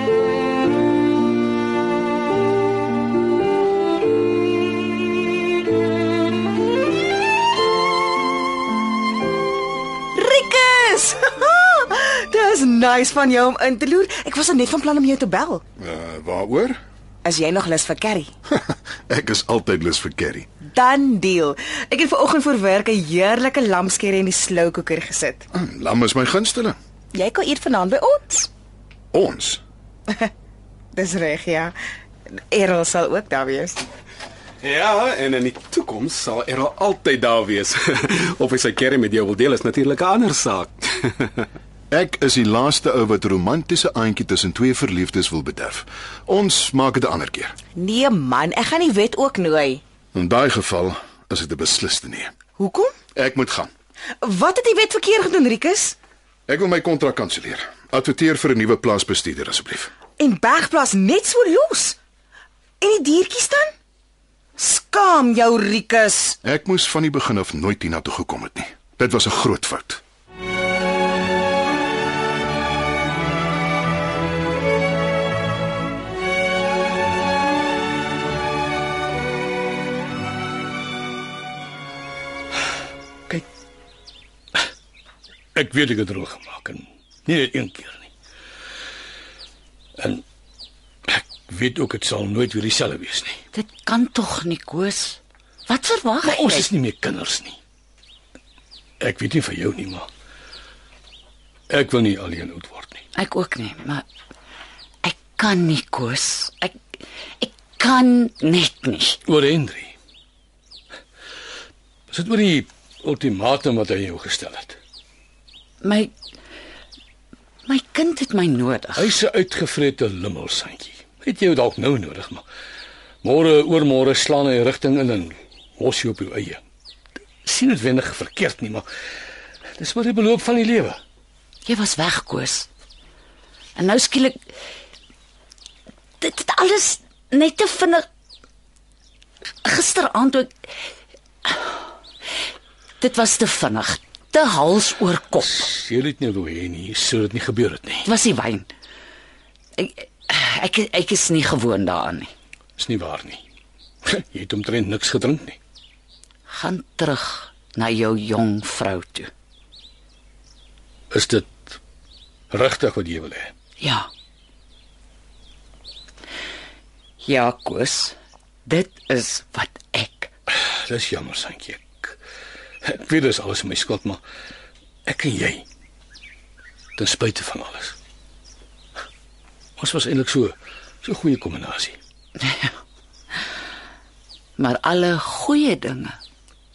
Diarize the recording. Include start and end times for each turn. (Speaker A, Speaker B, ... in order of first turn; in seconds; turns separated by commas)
Speaker A: 10.2-15.6, Speaker B: 15.8-16.8, Speaker A: 17.2-18.3, Speaker B: 18.5-20.5, Speaker A: 20.7-25.4, Speaker B: 25.5-26.8, Speaker A: 27.1-28.5, Speaker B: 29.1-29.6, Speaker A: 30.9-31.8, Speaker A: 32.5-33.8, Speaker C: 34.6-41.5, Speaker B: 41.9-47.5, Speaker A: 47.8-49.8, Speaker B: 50.1-52.3, Speaker A: 52.6-53.0, Speaker B: 53.1-53.7, Speaker A: 54.2-56.0, Speaker B: 56.5-59.9, Speaker A: 60.2-62.0, Speaker A: 62.8-63.7, Speaker A: 64.6-66.4, Speaker B: 66.4-70.0, Speaker D: 85.5-88.1, Speaker D: 90.0-90.2, Speaker D: 91.1-93.4, Speaker E: 93.5-96.7, Speaker D: 96.2-97.6, Speaker D: 99.0-100.1, Speaker D: 101.7-103.0, Speaker E: 103.2-104.0, Speaker E: 105.0-106.8, Speaker E: 107.4-109.2, Speaker D: 109.3-109.9, Speaker D: 112.1-114.8, Speaker E: 115.8-116.1, Speaker E: 117.7-119.1, Speaker D: 119.0-122.4, Speaker D: 123.2-126.6, Speaker D: 127.5-128.8, Speaker D: 129.8-131.0, Speaker E: 131.7-132.7, Speaker E: 133.8-134.3, Speaker E: 136.2-138.0, Speaker E: 139.6-140.5, Speaker E: 143.0-145.6, Speaker D: 145.6-148.1, Speaker E: 148.0-148.7, Speaker E: 149.8-152.3, Speaker D: 152.8-153.4, Speaker D: 154.0-155.6, Speaker E: 156.5-159.3, Speaker D: 161.1-161.8, Speaker D: 162.5-163.5, Speaker E: 163.8-164.1, Speaker E: 167.2-170.3, Speaker D: 170.8-172.2, Speaker D: 172.8-174.2, Speaker D: 175.1-175.7, Speaker D: 177.0-177.9, Speaker D: 179.8-182.0, Speaker E: 182.4-182.7, Speaker E: 184.6-186.2